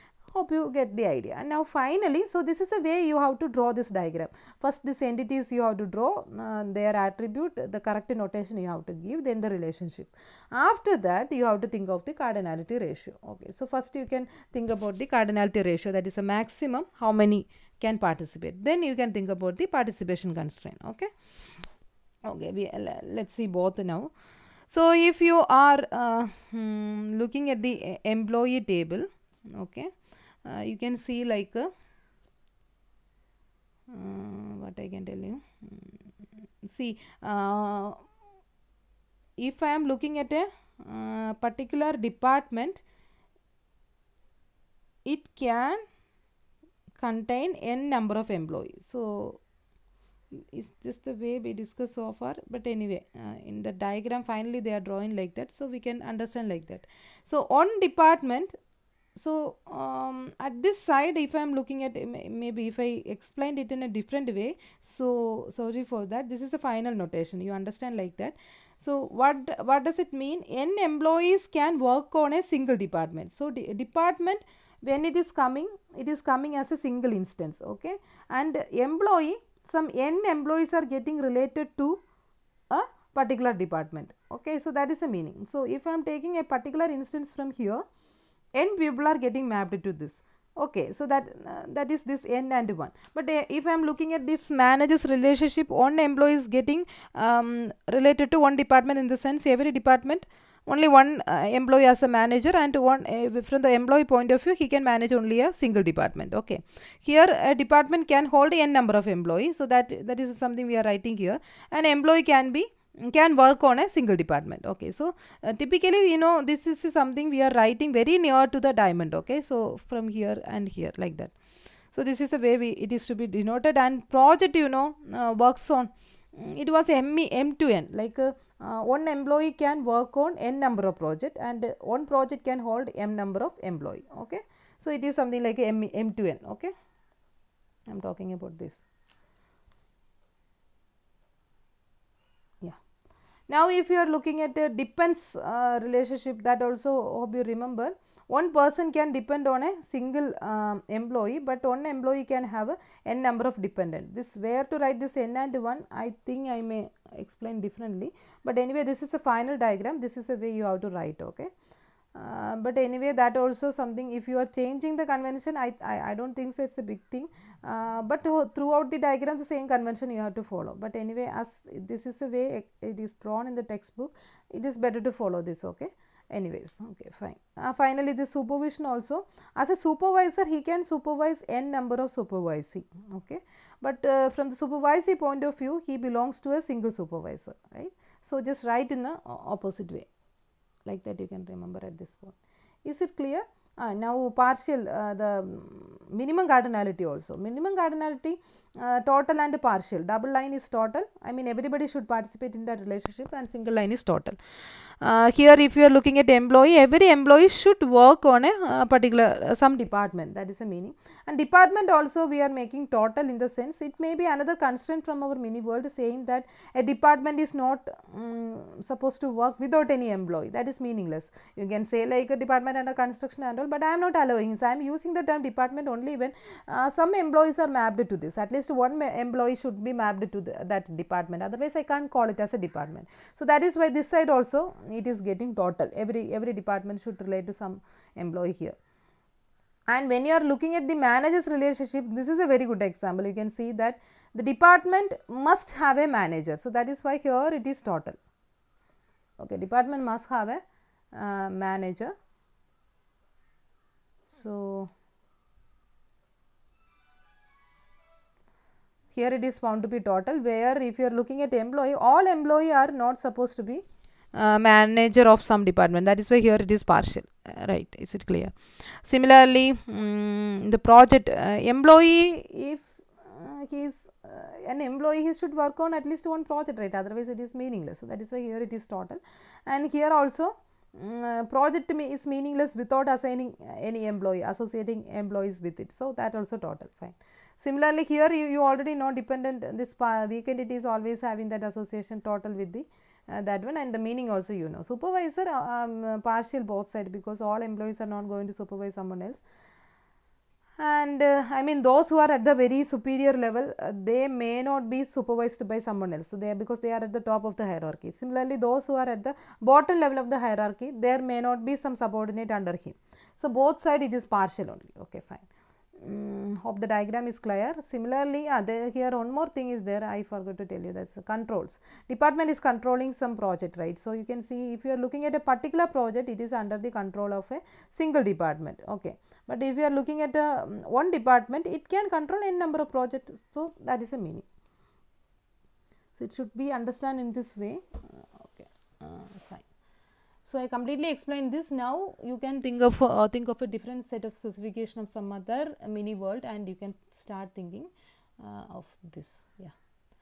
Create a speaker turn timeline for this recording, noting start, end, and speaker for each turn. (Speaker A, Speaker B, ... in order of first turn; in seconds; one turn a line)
Speaker A: 0.3-21.1
Speaker A: 22.2-24.1
Speaker A: 24.7-29.9
Speaker A: 30.4-31.7
Speaker A: 33.9-36.0
Speaker A: 36.6-38.0
Speaker A: 39.4-42.8
Speaker A: 45.0-45.8
Speaker A: 47.0-49.4
Speaker A: 50.5-58.5
Speaker A: 59.1-82.0
Speaker A: 82.7-87.8
Speaker A: 88.5-121.3
Speaker A: 121.9-136.7
Speaker A: 137.9-138.8
Speaker A: 143.5-161.5
Speaker A: 162.1-190.1
Speaker A: 190.8-204.4
Speaker A: 205.0-238.8
Speaker A: 239.9-248.2
Speaker A: 249.4-250.6
Speaker A: 251.1-252.1
Speaker A: 254.3-254.9
Speaker A: 259.1-263.8
Speaker A: 264.4-299.4
Speaker A: 300.8-315.5
Speaker A: 316.0-334.4
Speaker A: 336.2-339.7
Speaker A: 340.4-349.7